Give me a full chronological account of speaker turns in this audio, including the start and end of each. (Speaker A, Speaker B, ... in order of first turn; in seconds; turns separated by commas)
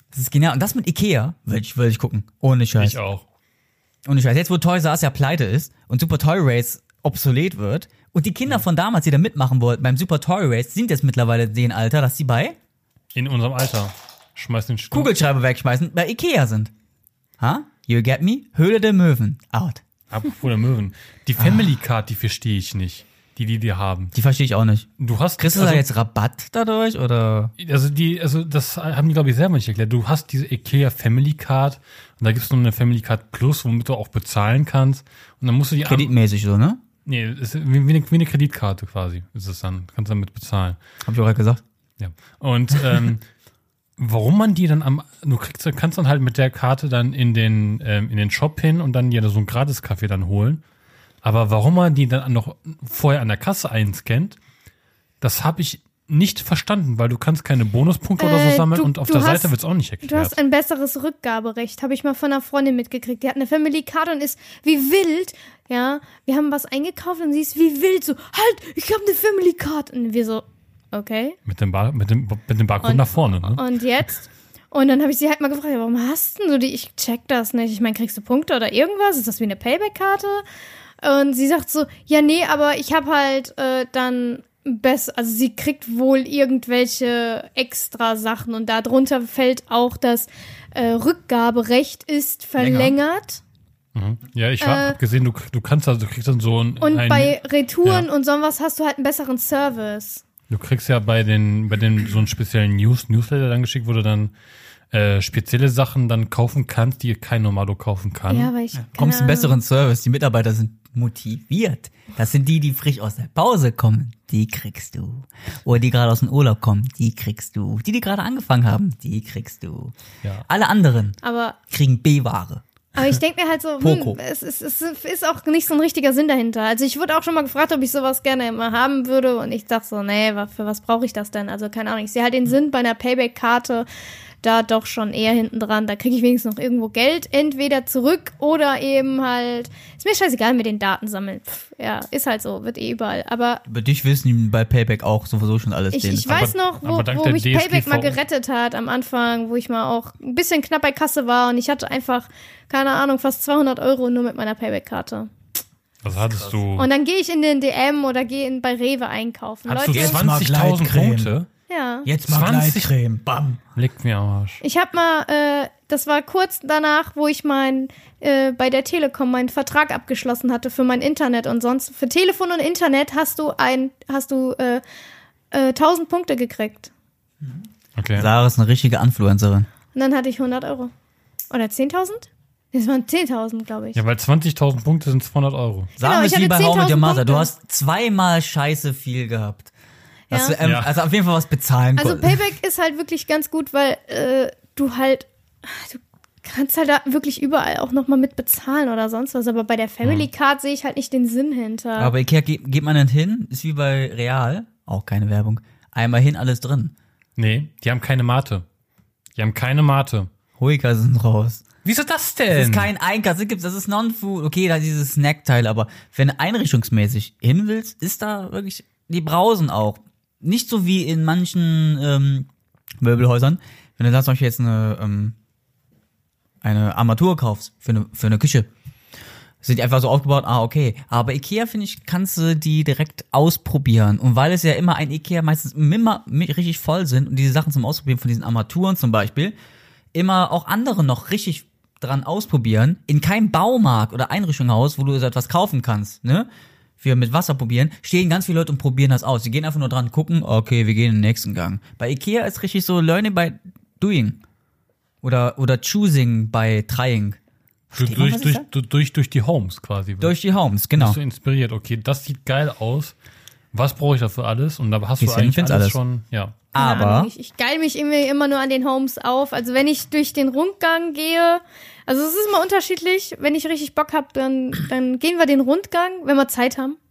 Speaker A: 0.1-3.0, Speaker B: 2.8-3.2, Speaker A: 4.0-12.6, Speaker B: 13.1-15.1, Speaker A: 14.9-16.7, Speaker A: 17.4-19.8, Speaker B: 20.1-24.1, Speaker A: 21.4-21.6, Speaker A: 24.1-27.5, Speaker B: 25.0-25.8, Speaker B: 27.6-36.1, Speaker A: 35.8-36.8, Speaker B: 37.0-40.8, Speaker A: 41.0-41.6, Speaker B: 42.0-43.2, Speaker B: 44.0-50.6, Speaker B: 51.2-54.4, Speaker B: 55.2-60.4, Speaker C: 58.2-71.4, Speaker B: 71.5-73.6, Speaker C: 72.8-80.4, Speaker C: 81.0-93.4, Speaker A: 92.6-93.0, Speaker B: 93.9-98.1, Speaker C: 94.6-95.0, Speaker C: 96.8-100.2, Speaker B: 100.5-104.3, Speaker B: 104.9-108.5, Speaker C: 108.3-109.6, Speaker A: 108.7-119.9, Speaker A: 120.4-121.2, Speaker C: 121.2-121.6, Speaker A: 121.7-122.6, Speaker C: 122.9-133.9, Speaker A: 123.8-124.2, Speaker C: 134.4-143.6, Speaker A: 143.7-146.5, Speaker C: 145.9-155.3, Speaker B: 146.3-148.2, Speaker B: 156.0-156.9, Speaker C: 156.7-160.2, Speaker B: 159.7-161.5, Speaker A: 159.9-161.3, Speaker C: 161.7-162.1, Speaker A: 162.0-163.6, Speaker B: 162.2-162.9, Speaker B: 163.8-164.6, Speaker C: 164.6-174.8, Speaker C: 175.5-176.9, Speaker B: 178.0-178.3, Speaker A: 178.2-179.7, Speaker C: 179.9-180.9, Speaker C: 181.5-184.0, Speaker B: 183.9-185.9, Speaker A: 186.0-189.7, Speaker C: 186.0-187.5, Speaker C: 190.3-190.6, Speaker A: 190.3-192.4, Speaker B: 190.6-191.0, Speaker C: 192.0-202.1, Speaker B: 200.0-200.3, Speaker A: 202.0-206.9, Speaker B: 207.4-208.6, Speaker B: 209.3-210.3, Speaker A: 210.6-211.6, Speaker B: 211.8-212.9, Speaker A: 212.5-222.5, Speaker A: 223.0-225.3, Speaker A: 226.6-228.7, Speaker A: 229.6-239.5, Speaker A: 240.1-246.5, Speaker A: 247.0-254.4, Speaker A: 255.2-257.4, Speaker A: 257.9-258.6, Speaker B: 257.9-260.4, Speaker A: 260.2-261.2, Speaker B: 260.9-263.1, Speaker B: 263.7-266.6, Speaker A: 265.2-266.0, Speaker A: 266.7-267.3, Speaker C: 266.7-277.0